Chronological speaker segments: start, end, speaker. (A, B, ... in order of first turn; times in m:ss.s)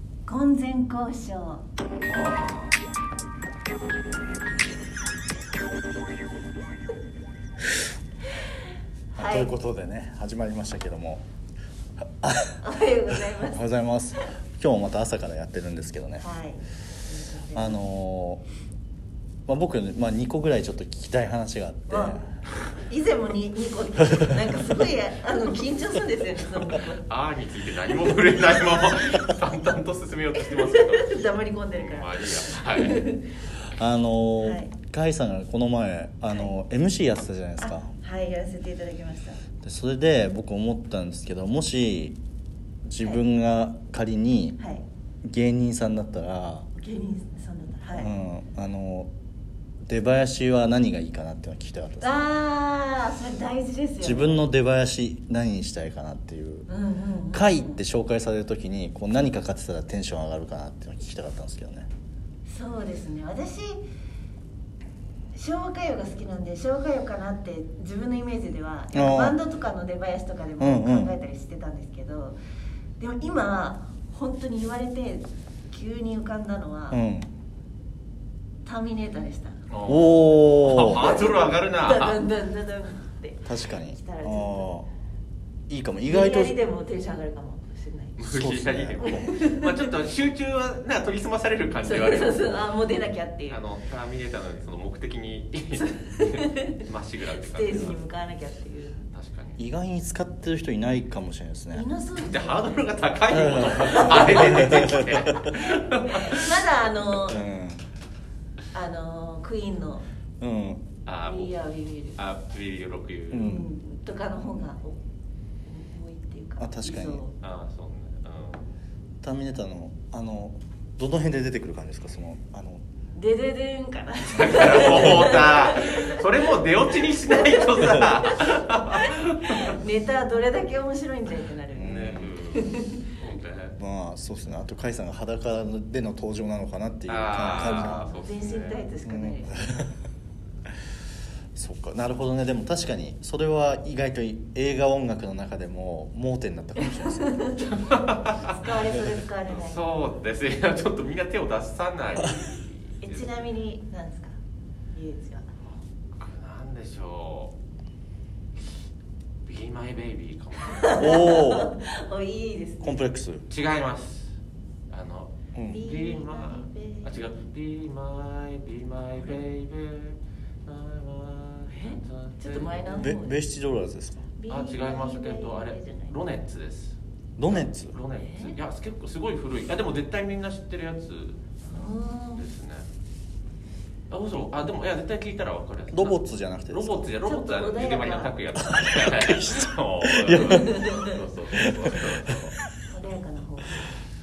0:00.2-0:01.6 A
0:09.1-0:09.5 A
0:09.1-0:11.2 B
0:12.2-0:12.6 B
0:12.6-0:13.6 A
0:13.1-0:16.2 B
0:16.2-0:17.8 A
0:17.5-0:18.4 B
0:19.5-0:22.3 B
0:21.9-0:22.2 A
0:22.8-0:27.0 A
0:24.3-0:24.6 B
0:26.7-0:31.1 C
0:30.5-0:33.3 A
0:31.7-0:33.1 C
0:33.7-0:37.9 B
0:34.4-0:34.7 A
0:37.6-0:39.4 A
0:39.6-0:42.2 B
0:42.8-0:44.6 B
0:44.6-0:44.8 A
0:45.2-0:46.7 B
0:46.8-0:48.1 A
0:47.9-0:49.1 B
0:49.8-0:52.3 B
0:52.0-0:54.4 A
0:54.0-0:56.7 B
0:56.7-0:57.8 A
0:57.3-1:01.9 B
1:02.5-1:03.8 A
1:05.3-1:12.4 A
1:08.9-1:09.4 B
1:10.6-1:11.1 B
1:13.0-1:17.0 A
1:16.9-1:17.3 B
1:18.6-1:19.7 A
1:19.7-1:22.2 C
1:19.8-1:21.2 B
1:20.8-1:24.7 A
1:23.4-1:24.9 B
1:25.7-1:26.6 B
1:26.1-1:28.2 A
1:28.2-1:32.6 C
1:28.2-1:29.3 B
1:29.0-1:29.9 A
1:31.8-1:33.6 A
1:33.5-1:38.0 C
1:35.8-1:36.8 A
1:37.4-1:39.1 A
1:39.1-1:39.6 C
1:39.6-1:41.8 B
1:41.7-1:42.9 A
1:42.2-1:46.5 C
1:43.3-1:45.6 B
1:43.7-1:45.0 A
1:46.1-1:47.4 A
1:47.1-1:47.8 B
1:48.7-1:50.0 A
1:50.4-1:50.9 B
1:51.0-1:51.5 C
1:51.2-1:52.2 A
1:52.2-1:53.5 C
1:53.3-1:53.7 B
1:53.3-1:55.0 A
1:55.6-1:57.3 A
1:56.6-1:57.2 B
1:57.4-1:58.7 C
1:59.2-2:02.8 B
2:03.1-2:06.2 A
2:04.2-2:09.7 C
2:05.0-2:05.3 B
2:07.3-2:13.0 A
2:11.7-2:12.3 B
2:11.8-2:13.8 C
2:13.8-2:18.1 B
2:17.1-2:18.8 C
2:17.5-2:19.6 A
2:19.0-2:19.9 B
2:21.5-2:27.6 B
2:26.8-2:27.8 A
2:27.6-2:28.5 C
2:28.4-2:29.9 A
2:29.4-2:33.4 C
2:33.0-2:34.4 A
2:34.9-2:35.5 A
2:35.6-2:37.5 C
2:39.4-2:41.2 C
2:40.7-2:43.0 A
2:41.0-2:41.7 B
2:42.8-2:43.4 B
2:43.5-2:44.3 C
2:44.9-2:53.1 C
2:45.5-2:45.8 B
2:45.7-2:47.2 A
2:51.7-2:53.4 A
2:53.0-2:54.2 B
2:54.4-2:56.2 A
2:54.5-3:02.8 C
2:57.4-2:58.0 B
2:58.2-2:58.6 A
3:01.6-3:02.4 A
3:04.1-3:12.5 C
3:05.9-3:07.1 B
3:07.2-3:08.4 A
3:08.6-3:10.8 B
3:10.5-3:11.2 A
3:11.5-3:12.3 B
3:12.9-3:13.9 A